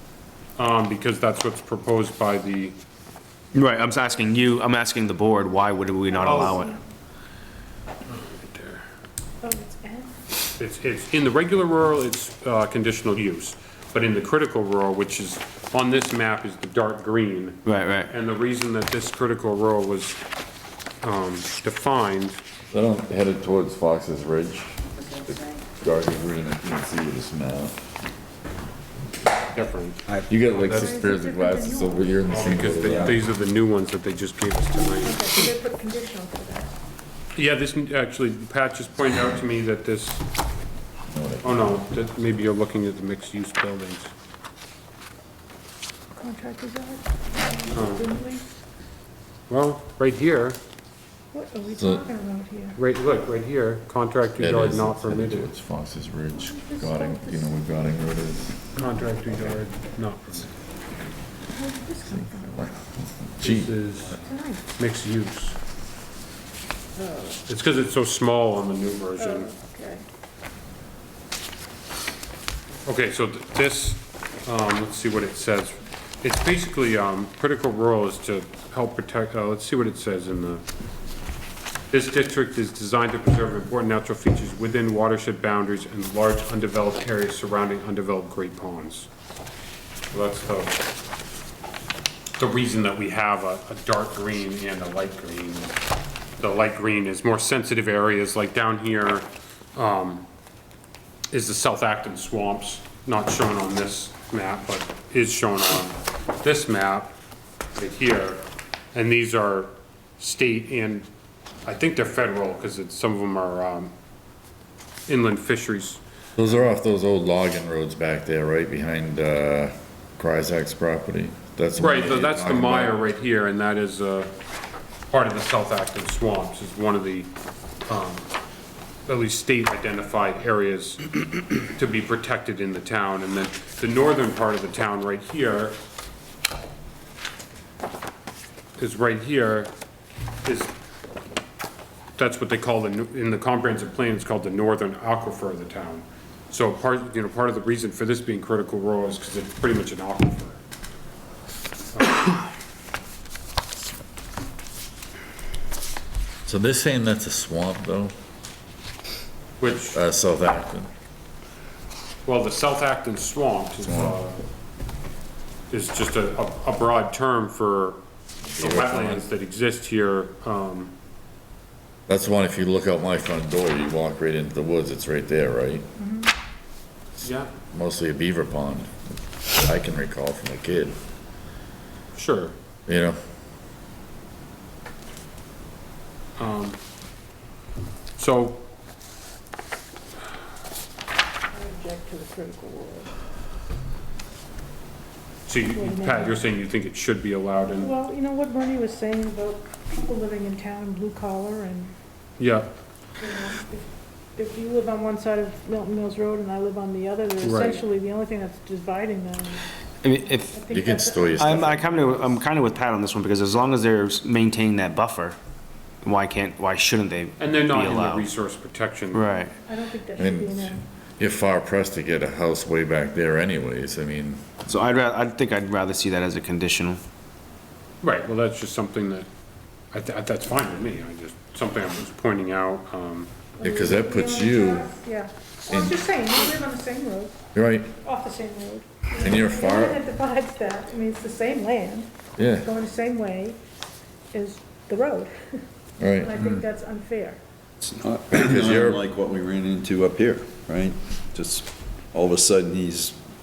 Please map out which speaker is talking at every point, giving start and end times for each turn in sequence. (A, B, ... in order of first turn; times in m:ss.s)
0:00.6-0:02.8 A
0:03.5-0:06.7 B
0:06.0-0:06.8 C
0:06.2-0:06.6 A
0:08.1-0:08.8 A
0:09.4-0:10.2 C
0:10.6-0:20.2 A
0:17.6-0:18.1 B
0:21.0-0:22.4 A
0:22.7-0:24.8 D
0:25.8-0:27.8 D
0:29.5-0:30.0 A
0:30.3-0:33.2 D
0:30.6-0:32.4 C
0:32.2-0:35.4 A
0:35.0-0:36.7 C
0:37.3-0:40.2 A
0:41.1-0:41.8 D
0:41.4-0:44.1 A
0:46.2-0:48.4 C
0:47.7-0:48.0 A
0:49.5-0:50.6 A
0:51.3-0:52.8 C
0:51.8-0:52.0 D
0:52.8-0:55.5 A
0:54.4-0:59.6 D
0:56.3-0:57.5 C
0:58.8-1:00.5 A
1:01.5-1:02.6 C
1:02.1-1:04.1 D
1:03.4-1:04.2 A
1:04.2-1:04.7 C
1:04.7-1:05.6 A
1:07.0-1:07.4 C
1:07.5-1:09.5 A
1:09.2-1:10.0 C
1:12.8-1:20.6 A
1:21.9-1:29.1 A
1:30.1-1:30.8 A
1:32.4-1:35.7 A
1:36.4-1:40.2 A
1:41.3-1:47.2 A
1:47.7-1:48.4 A
1:48.9-1:51.1 A
1:51.7-1:53.9 A
1:55.1-1:56.0 A
1:56.4-2:03.0 D
2:01.8-2:04.3 A
2:05.1-2:07.3 A
2:07.9-2:08.3 A
2:09.1-2:15.8 A
2:18.8-2:19.7 A
2:20.4-2:20.7 A
2:22.2-2:30.6 A
2:31.9-2:32.4 A
2:36.5-2:38.1 D
2:39.6-2:40.0 A
2:39.8-2:40.9 D
2:42.2-2:44.4 A
2:43.8-2:44.2 D
2:45.7-2:48.0 A
2:48.5-2:49.3 D
2:48.6-2:50.9 A
2:52.1-2:55.8 D
2:56.0-2:56.3 C
2:57.2-2:57.5 A
2:57.7-3:01.0 D
3:02.2-3:02.6 A
3:02.9-3:03.2 D
3:06.4-3:06.8 A
3:08.2-3:08.7 A
3:11.5-3:13.1 C
3:15.5-3:17.9 A
3:15.7-3:16.5 C
3:17.7-3:21.9 C
3:22.4-3:22.7 A
3:23.2-3:32.3 C
3:27.4-3:27.8 A
3:30.0-3:30.6 B
3:30.7-3:31.8 D
3:31.3-3:35.4 B
3:36.0-3:38.3 B
3:37.4-3:39.4 A
3:39.1-3:39.5 B
3:39.7-3:40.8 C
3:40.2-3:44.4 D
3:44.7-3:47.0 B
3:48.0-3:49.3 A
3:49.9-3:53.3 A
3:53.6-3:57.4 C
3:53.6-3:54.9 D
3:55.7-3:56.0 D
3:57.6-3:57.9 D
3:58.0-4:02.1 C
3:59.2-4:00.0 D
4:02.4-4:02.7 D
4:02.6-4:03.6 C
4:04.3-4:05.6 C
4:06.0-4:06.6 D
4:06.2-4:07.4 C
4:07.8-4:13.2 E
4:08.3-4:09.0 D